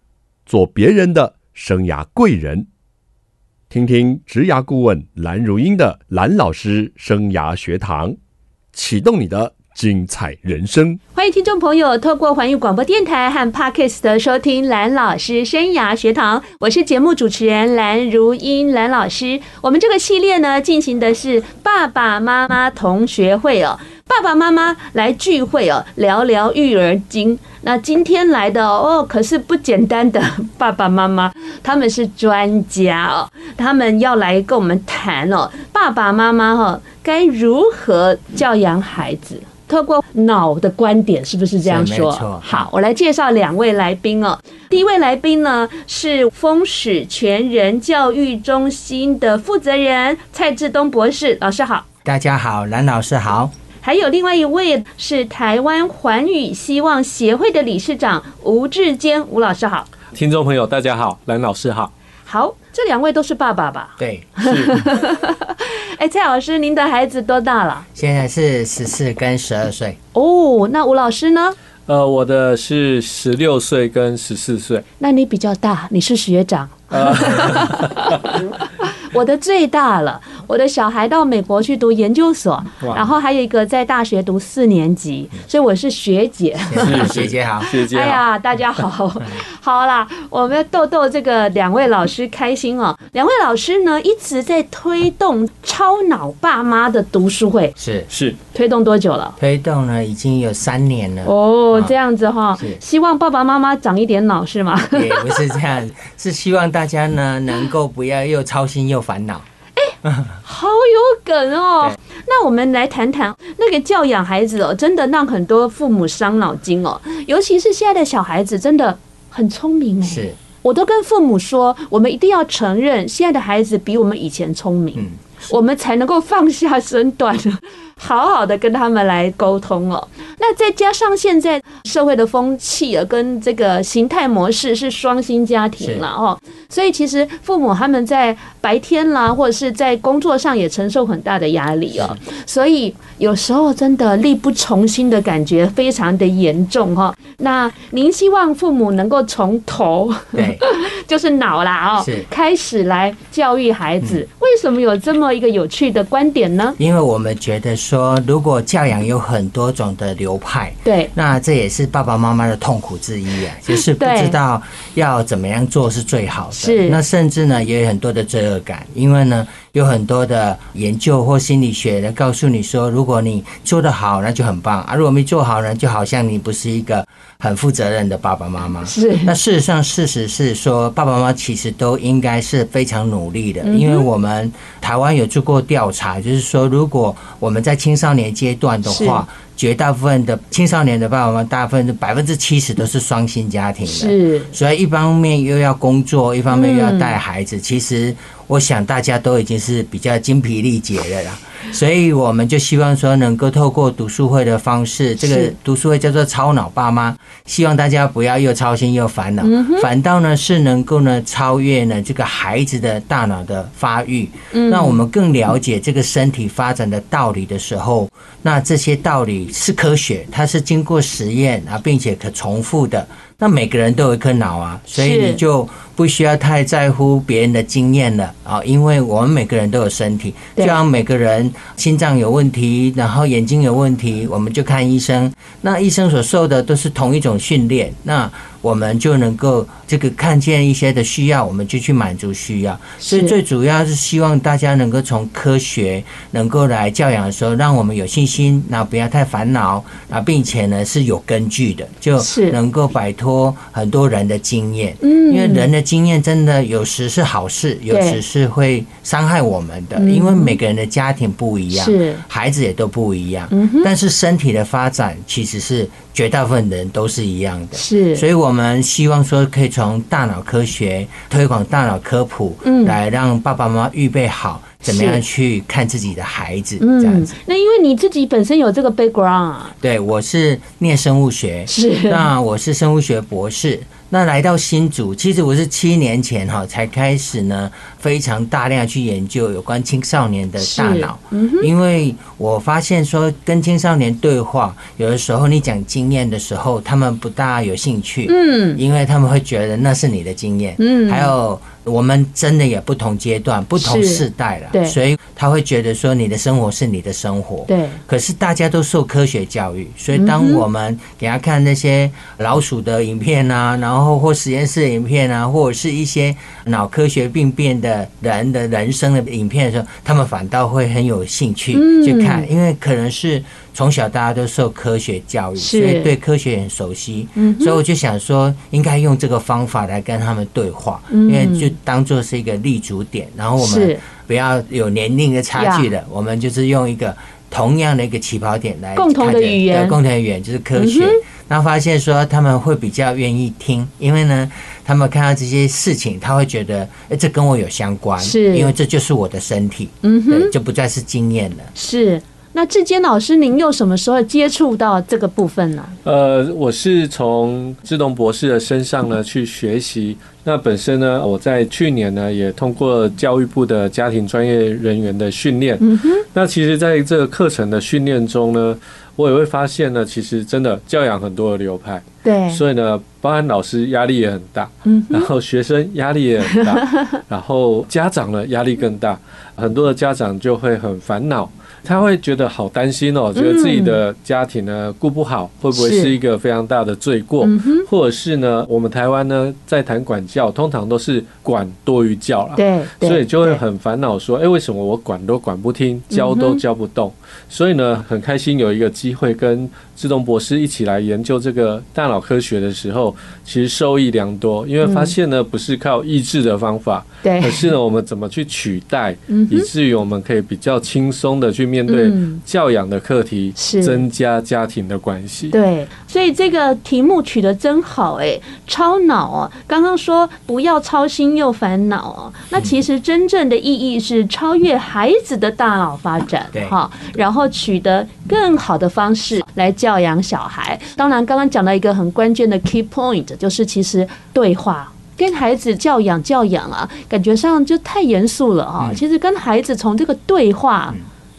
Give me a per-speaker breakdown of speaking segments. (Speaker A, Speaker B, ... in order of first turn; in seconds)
Speaker A: 0.5-2.7, 3.7-8.2, 8.7-11.0
Speaker B: 11.2-51.9, 53.8-59.9, 62.3-67.9, 70.1-71.6, 75.0-97.8, 98.5-99.4, 101.2-105.4, 109.8-156.8, 160.8-161.1, 163.9-164.4, 166.6-167.0, 178.8-179.3, 183.6-184.1, 188.8-189.2, 193.9-194.5, 196.5-197.2, 205.2-205.5, 209.4-209.9, 214.5-215.0, 224.9-225.4, 243.0-243.3, 252.2-252.6, 255.0-255.7, 257.9-258.2, 260.0-260.6, 261.7-262.2, 263.5-263.9, 267.7-268.2, 272.6-273.0, 274.8-275.2, 276.8-279.7, 281.7-282.3, 290.6-291.7, 298.3-298.8, 300.8-301.3, 303.8-305.0, 307.7-308.0, 310.1-310.6, 321.7-322.5, 325.6-326.1, 327.4-327.8, 331.1-331.7, 333.6-334.0, 335.6-335.9, 338.9-340.0, 340.8-341.2, 348.2-348.7, 350.0-350.5, 351.8-355.9, 365.8-366.2, 372.2-372.6, 374.9-375.3, 376.6-377.1, 383.4-384.0, 385.7-386.1, 387.4-387.9, 392.6-393.6, 396.1-396.6, 404.8-405.1, 407.2-407.7, 409.3-409.7, 411.9-412.4, 413.6-414.1, 415.5-441.0
Speaker C: 41.6-42.7, 52.0-53.5, 64.0-64.8, 68.0-70.0, 86.7-87.7, 97.8-98.1, 99.4-101.9, 104.9-109.5, 110.0-110.4, 120.0-120.4, 125.0-125.5, 135.8-136.1, 150.3-150.6, 152.0-152.3, 156.8-277.4, 279.8-351.7
Speaker D: 60.1-61.9, 64.4-64.8, 71.9-74.8, 76.9-78.2, 82.8-83.1, 86.8-88.2, 98.1-98.4, 356.1-415.6